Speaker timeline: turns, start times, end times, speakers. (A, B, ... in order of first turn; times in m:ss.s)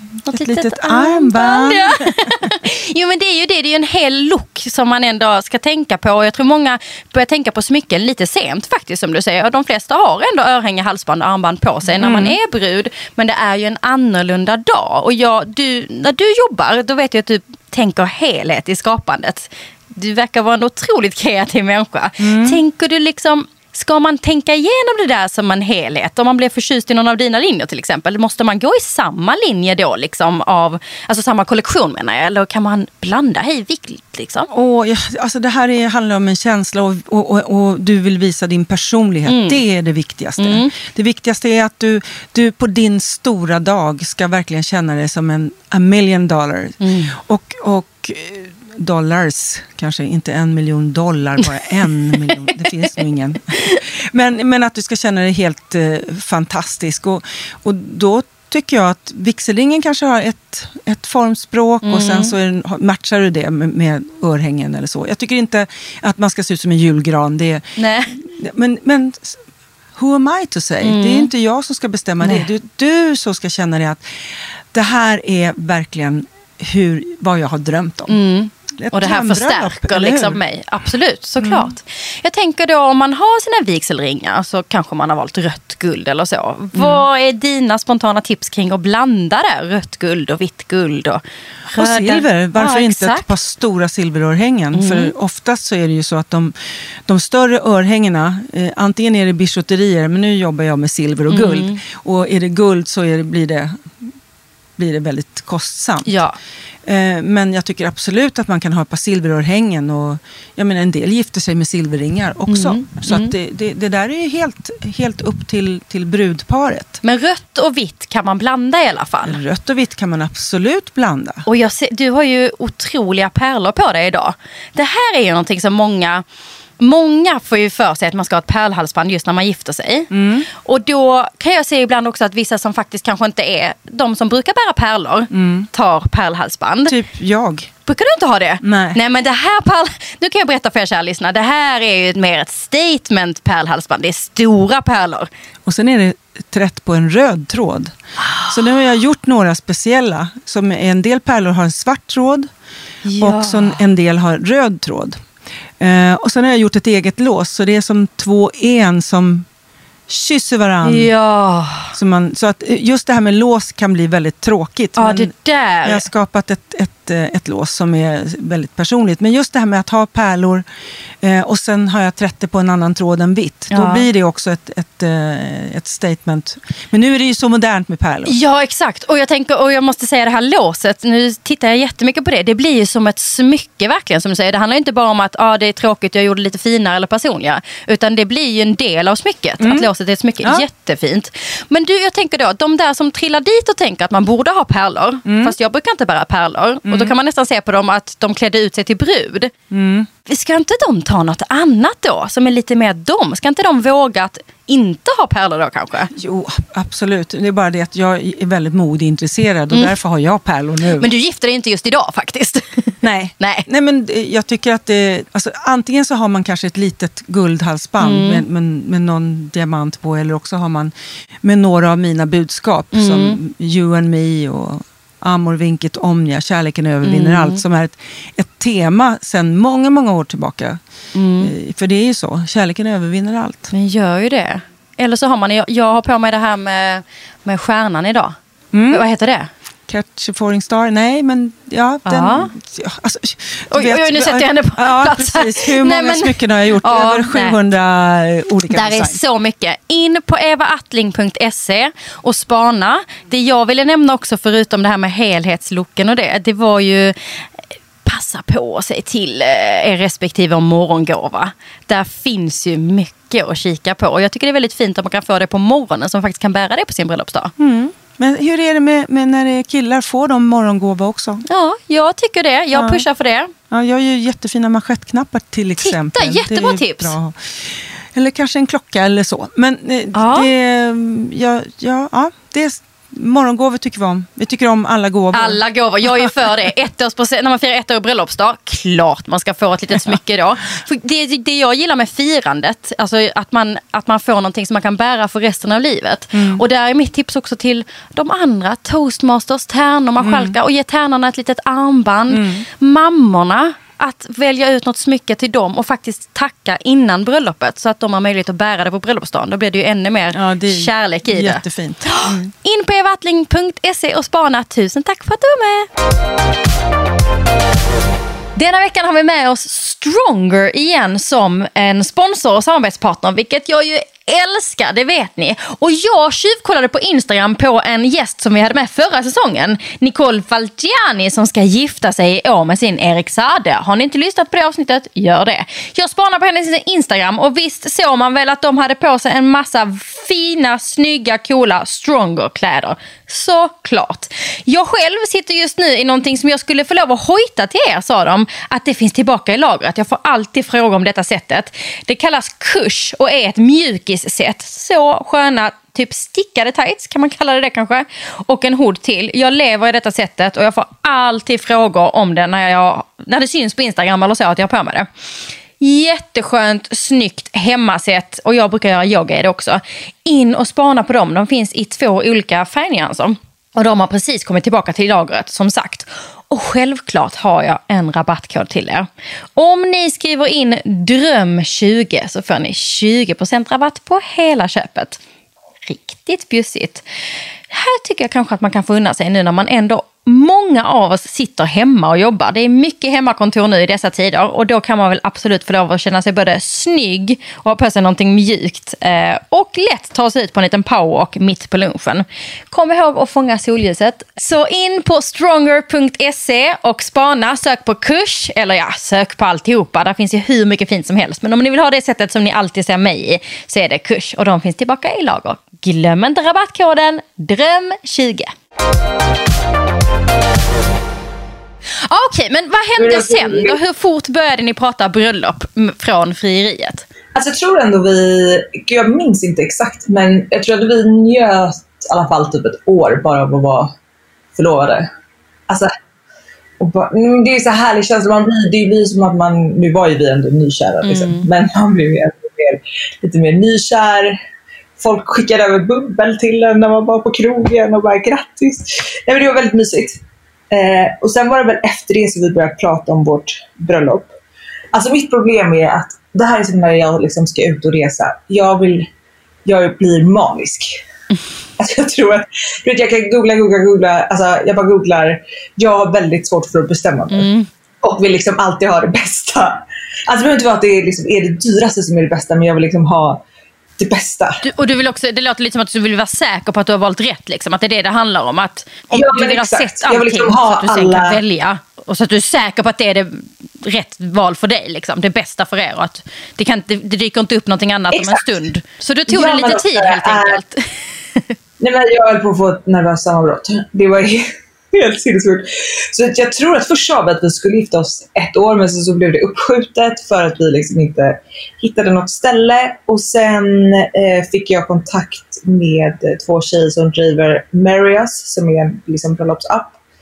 0:00.2-0:02.3 A
0:00.3-0:34.5 B
0:12.0-0:12.4 A
0:22.2-0:22.6 A
0:34.5-1:09.4 A
0:39.2-0:39.6 B
0:40.4-0:40.7 B
0:46.8-0:47.1 B
1:01.8-1:02.3 B
1:07.8-1:08.1 B
1:09.9-1:14.0 A
1:10.8-1:11.3 B
1:12.2-1:12.5 B
1:14.7-1:18.2 A
1:18.1-1:33.3 B
1:18.7-1:20.4 A
1:21.4-1:21.7 A
1:26.7-1:27.0 A
1:31.7-1:36.5 A
1:34.7-1:35.1 B
1:37.0-1:44.1 A
1:41.3-1:41.8 B
1:44.8-1:46.2 A
1:46.0-1:46.4 B
1:46.8-1:57.0 A
1:52.5-1:53.3 B
1:57.0-1:59.4 B
1:59.2-2:01.4 A
2:01.4-2:06.2 B
2:06.8-2:17.0 B
2:10.1-2:10.5 A
2:15.3-2:15.7 A
2:16.9-2:17.7 A
2:17.8-2:25.3 B
2:18.6-2:19.0 A
2:25.6-2:27.9 A
2:28.2-2:28.6 B
2:28.5-2:32.5 A
2:33.0-2:33.8 B
2:33.2-2:35.2 A
2:35.8-2:39.5 A
2:40.1-2:41.1 A
2:40.8-2:41.9 B
2:41.9-2:45.3 A
2:45.0-2:46.1 B
2:45.8-2:50.6 A
2:51.2-2:58.4 A
2:53.7-2:54.1 B
2:58.2-3:19.5 B
3:09.6-3:09.9 A
3:15.2-3:15.5 A
3:16.8-3:17.1 A
3:19.7-3:20.1 A
3:20.2-3:26.1 B
3:26.1-3:31.1 A
3:31.0-3:33.7 B
3:33.0-3:50.8 A
3:38.0-3:38.4 B
3:42.9-3:43.4 B
3:47.0-3:47.6 B
3:51.1-3:51.5 B
3:51.4-3:53.7 A
3:53.7-3:58.4 B
3:58.7-3:59.0 A
3:58.9-3:59.5 B
3:59.9-4:09.2 A
4:02.0-4:02.5 B
4:03.7-4:07.6 B
4:08.7-4:17.2 B
4:18.0-4:27.5 B
4:27.6-4:31.4 A
4:31.4-4:33.5 B
4:32.7-4:33.0 A
4:33.7-4:46.4 A
4:35.8-4:37.1 B
4:40.1-4:40.5 B
4:45.3-5:15.9 B
4:56.3-4:56.6 A
5:00.2-5:00.6 A
5:02.3-5:02.6 A
5:10.3-5:12.5 A
5:18.6-6:05.1 B
6:05.8-6:25.2 B
6:25.8-6:27.0 B
6:27.7-6:58.5 B
7:02.0-7:07.0 B
7:03.0-7:03.8 C
7:07.3-7:13.9 C
7:14.6-7:15.1 C
7:16.8-7:24.4 C
7:21.0-7:21.5 B
7:25.0-7:30.2 C
7:30.7-7:34.3 C
7:34.9-7:39.1 C
7:39.6-7:41.0 C
7:41.8-7:47.5 C
7:47.3-7:47.7 B
7:48.0-7:53.4 C
7:54.0-7:54.6 C
7:54.6-8:11.5 B
7:59.1-8:01.4 C
8:08.1-8:08.6 C
8:09.3-8:10.6 C
8:11.8-8:30.0 C